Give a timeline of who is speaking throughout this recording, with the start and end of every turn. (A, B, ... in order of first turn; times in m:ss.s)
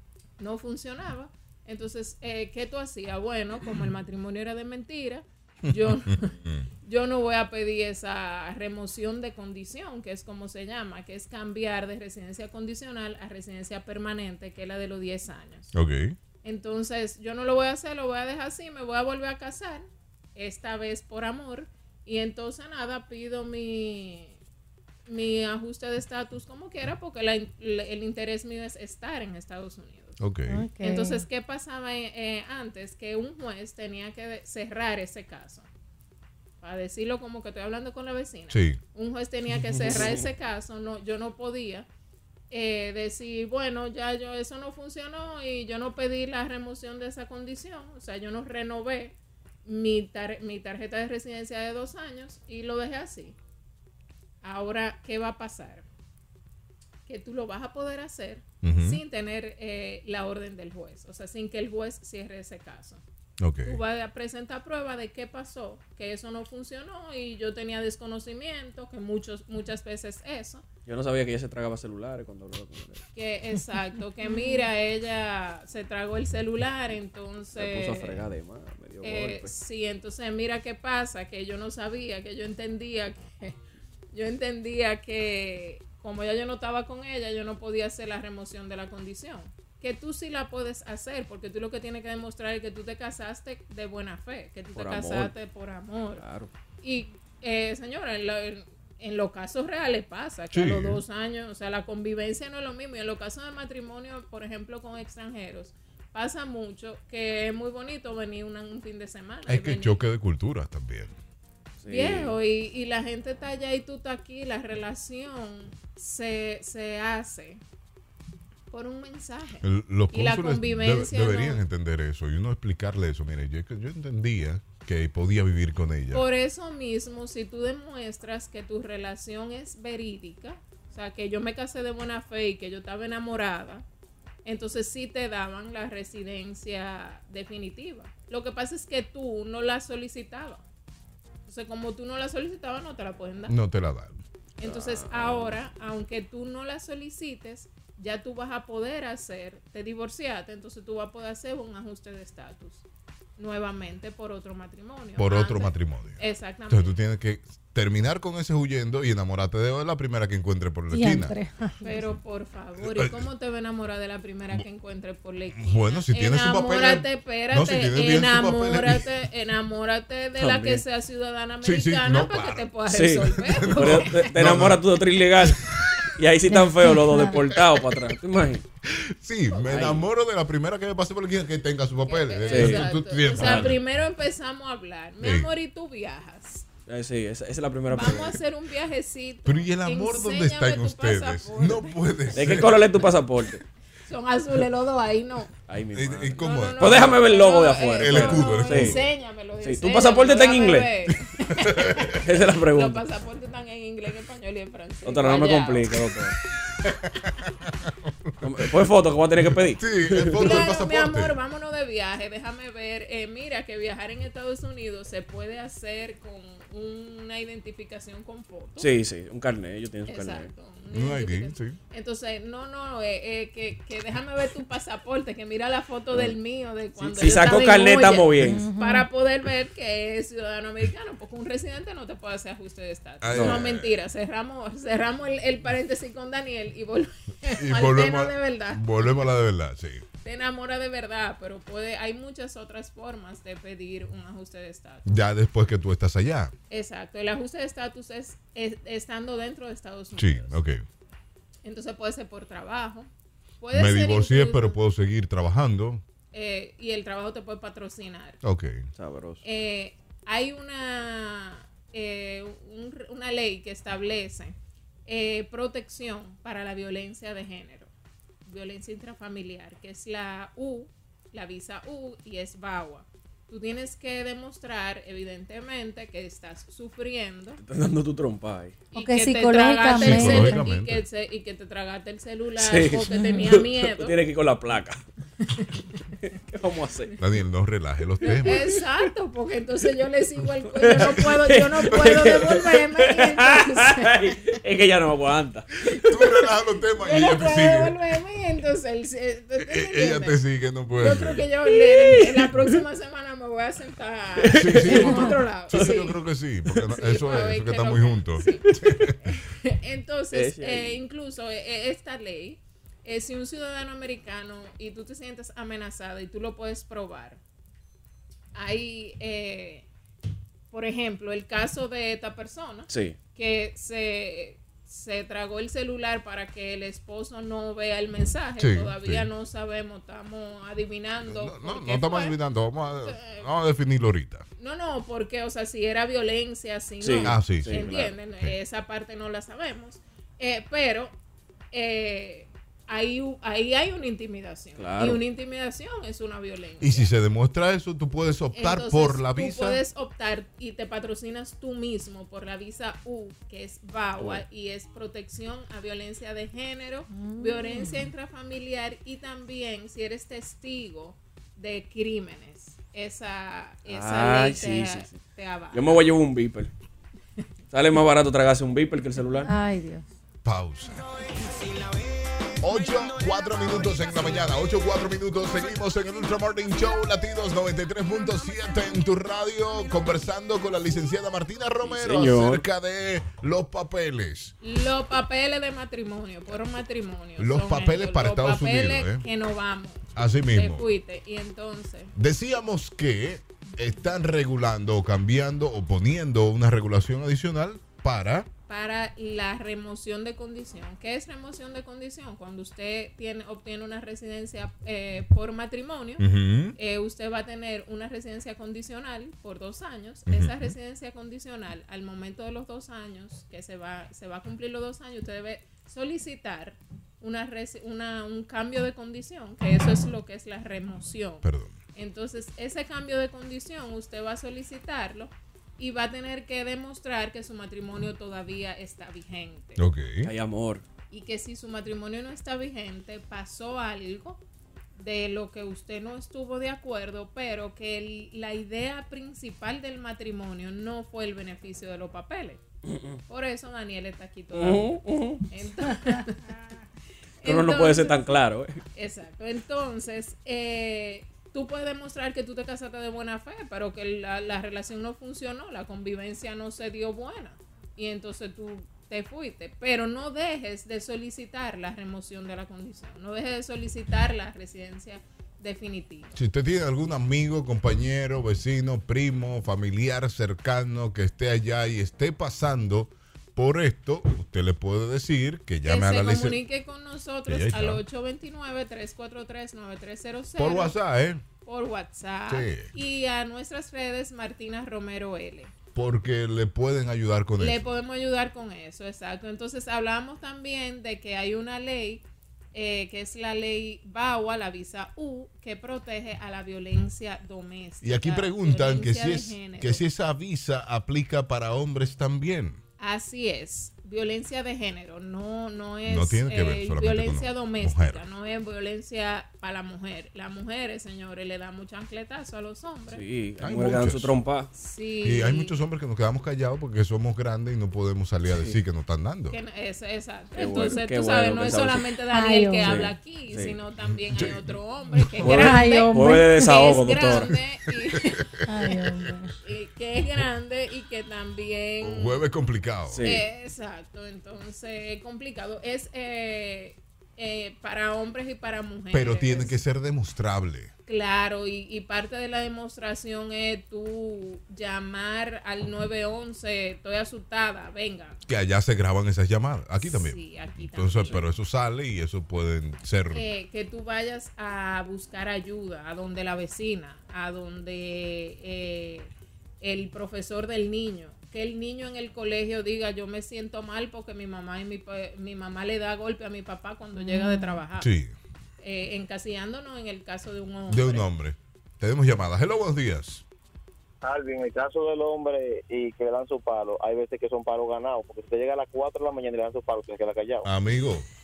0:00.4-0:15.7 A
0:05.7-0:06.6 B
0:15.7-0:16.2 B
0:16.4-0:24.4 A
0:25.1-0:30.2 A
0:30.2-0:30.6 B
0:30.5-0:31.2 C
0:30.8-0:35.7 A
0:36.6-0:41.9 A
0:38.5-0:38.8 B
0:39.5-0:40.3 D
0:42.5-0:53.4 A
0:54.4-0:55.8 A
0:57.0-1:03.0 A
0:58.6-0:59.0 B
1:03.4-1:03.8 B
1:03.6-1:10.6 A
1:10.8-1:13.0 D
1:13.1-1:18.2 A
1:14.3-1:14.6 C
1:17.6-1:19.5 D
1:19.0-1:23.6 A
1:24.1-1:36.2 A
1:34.7-1:35.3 D
1:36.2-1:36.5 D
1:36.8-1:50.0 A
1:40.5-1:41.0 B
1:49.5-1:51.1 B
1:51.8-1:52.4 D
1:51.8-1:57.6 A
1:58.7-2:01.6 A
1:59.6-2:06.2 B
2:06.1-2:13.8 A
2:14.4-2:20.6 A
2:21.4-2:23.6 A
2:23.5-2:24.2 B
2:24.6-2:32.8 A
2:24.6-2:25.6 D
2:33.4-2:36.9 A
2:35.2-2:41.3 B
2:40.9-2:42.0 C
2:41.8-2:54.3 A
2:42.8-2:43.3 B
2:45.6-2:49.1 B
2:50.4-2:50.8 D
2:51.6-2:52.7 B
2:52.9-2:58.6 D
2:53.3-2:54.8 B
2:55.4-2:55.8 B
2:56.5-2:57.4 C
2:58.8-3:03.8 B
2:59.7-3:00.0 D
3:02.0-3:06.6 A
3:02.5-3:03.8 D
3:05.2-3:05.5 B
3:06.9-3:08.4 D
3:07.9-3:12.0 A
3:09.4-3:12.8 B
3:12.3-3:13.6 D
3:14.1-3:15.5 A
3:15.7-3:19.0 D
3:15.9-3:17.2 B
3:16.4-3:25.9 A
3:18.0-3:19.0 B
3:19.6-3:21.0 D
3:21.7-3:22.1 B
3:22.2-3:23.0 D
3:25.0-3:26.4 D
3:27.2-3:28.6 B
3:28.4-3:30.6 D
3:29.4-3:31.4 B
3:30.4-3:38.9 A
3:38.8-3:40.5 D
3:40.1-3:59.1 A
3:40.9-3:41.8 B
3:47.0-3:48.7 D
3:48.5-3:49.1 C
3:53.2-3:53.9 B
3:53.3-3:53.6 D
3:57.6-4:00.0 B
4:00.2-4:05.1 A
4:05.0-4:06.5 B
4:06.7-4:10.6 A
4:10.2-4:10.8 B
4:11.6-4:13.1 A
4:13.6-4:14.8 A
4:13.7-4:16.0 B
4:16.3-4:18.4 A
4:18.4-4:18.9 B
4:19.0-4:19.4 D
4:19.4-4:24.5 A
4:25.0-4:27.9 A
4:28.4-4:37.6 A
4:37.6-4:38.8 D
4:38.9-4:44.2 A
4:38.9-4:40.6 C
4:39.9-4:41.0 B
4:42.6-4:45.0 D
4:43.1-4:43.5 C
4:46.2-4:47.1 D
4:47.2-4:48.6 B
4:48.2-4:54.3 A
4:48.3-4:48.8 D
4:50.7-4:56.2 D
4:56.1-4:58.0 B
4:57.0-5:00.4 A
4:59.6-5:01.4 B
5:01.0-5:06.2 A
5:01.6-5:02.8 D
5:04.4-5:05.2 D
5:04.6-5:09.1 B
5:05.7-5:06.0 D
5:06.9-5:08.6 A
5:08.7-5:09.0 D
5:09.2-5:17.4 A
5:10.3-5:11.0 D
5:18.5-5:19.9 A
5:20.7-5:32.4 A
5:22.9-5:23.2 D
5:28.6-5:29.3 B
5:31.3-5:34.4 B
5:32.9-5:33.5 A
5:34.6-5:41.1 A
5:37.0-5:38.1 D
5:37.2-5:37.8 B
5:41.7-5:47.1 A
5:44.8-5:45.2 D
5:46.8-5:49.8 B
5:48.5-6:06.1 A
5:54.2-5:54.4 D
5:57.1-5:58.1 C
6:03.8-6:05.2 D
6:05.7-6:06.7 D
6:07.7-6:09.5 D
6:09.4-6:10.0 C
6:10.4-6:11.1 B
6:12.6-6:24.5 B
6:21.8-6:22.6 D
6:24.6-6:32.1 A
6:27.4-6:29.2 B
6:30.2-6:30.9 B
6:32.1-6:38.5 B
6:38.7-7:09.8 A
6:46.2-6:46.8 B
6:50.3-6:50.7 B
7:01.4-7:01.8 B
7:09.8-7:10.3 B
7:10.2-7:10.8 D
7:11.1-7:14.4 A
7:15.0-7:22.6 A
7:22.9-7:23.2 D
7:23.3-7:24.9 A
7:24.5-7:25.4 D
7:25.5-7:26.5 A
7:27.4-7:28.4 A
7:27.4-7:28.8 D
7:28.9-7:46.4 A
7:46.4-7:56.6 B
7:55.8-8:00.9 A
7:57.5-7:58.0 B
8:00.6-8:01.4 B
8:01.6-8:05.7 A
8:02.5-8:02.9 B
8:05.9-8:07.9 B
8:07.6-8:20.0 A
8:18.0-8:22.8 B
8:23.0-8:33.2 A
8:26.0-8:28.2 B
8:33.1-8:34.7 D
8:33.6-8:34.3 B
8:34.7-8:35.7 A
8:35.2-8:39.6 B
8:39.5-8:48.4 A
8:40.6-8:42.1 D
8:42.3-8:43.0 C
8:42.8-8:43.8 D
8:44.0-8:45.4 B
8:45.4-8:47.5 D
8:45.5-8:46.6 C
8:48.4-8:49.3 B
8:48.7-8:49.5 C
8:49.6-8:52.4 A
8:52.0-8:53.2 B
8:53.1-8:53.4 D
8:53.2-8:59.8 A
8:59.1-9:00.9 B
9:01.0-9:08.4 A
9:08.5-9:13.4 B
9:10.0-9:11.5 A
9:13.3-9:28.1 A
9:27.2-9:27.8 C
9:28.0-9:28.4 B
9:28.8-9:31.2 A
9:30.9-9:33.4 B
9:34.2-9:40.7 E
9:40.6-9:41.2 B